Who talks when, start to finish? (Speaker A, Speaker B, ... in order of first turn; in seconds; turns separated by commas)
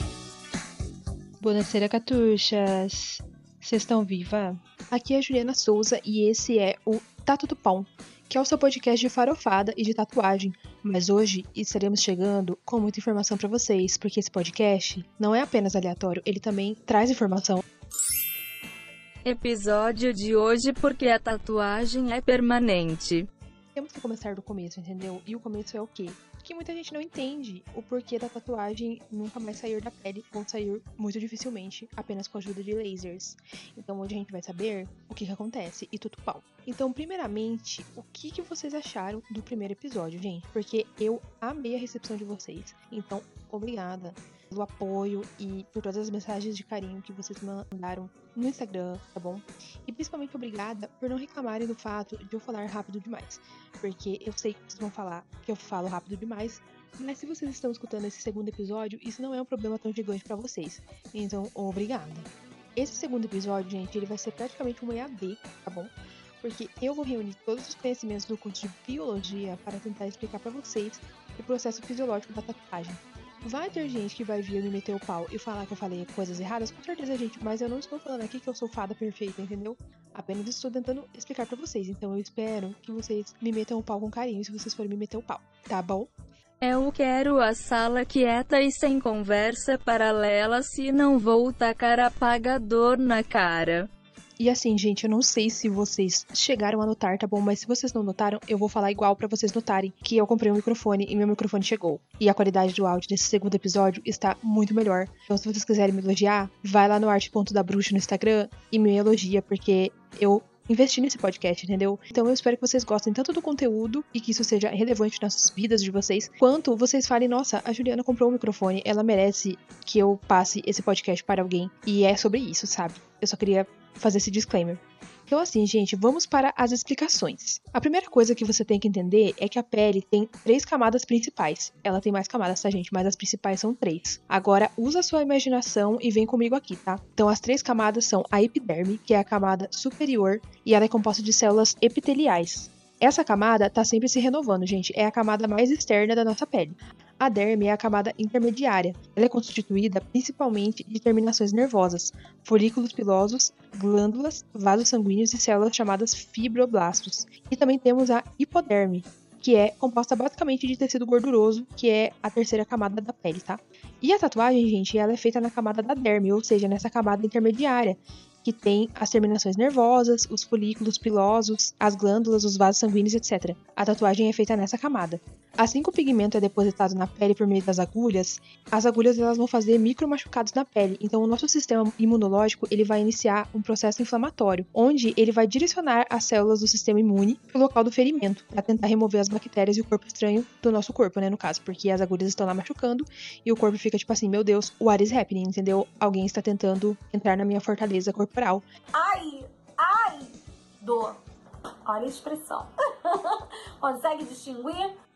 Speaker A: 1.4-17.6, Speaker B: 19.2-23.3, Speaker A: 23.8-86.1, Speaker B: 86.6-93.9, Speaker A: 94.4-198.7, Speaker C: 199.0-199.9, Speaker B: 199.8-200.2, Speaker B: 200.8-201.1, Speaker C: 201.9-202.7, Speaker B: 201.9-202.7, Speaker B: 203.8-204.9, Speaker C: 203.9-204.8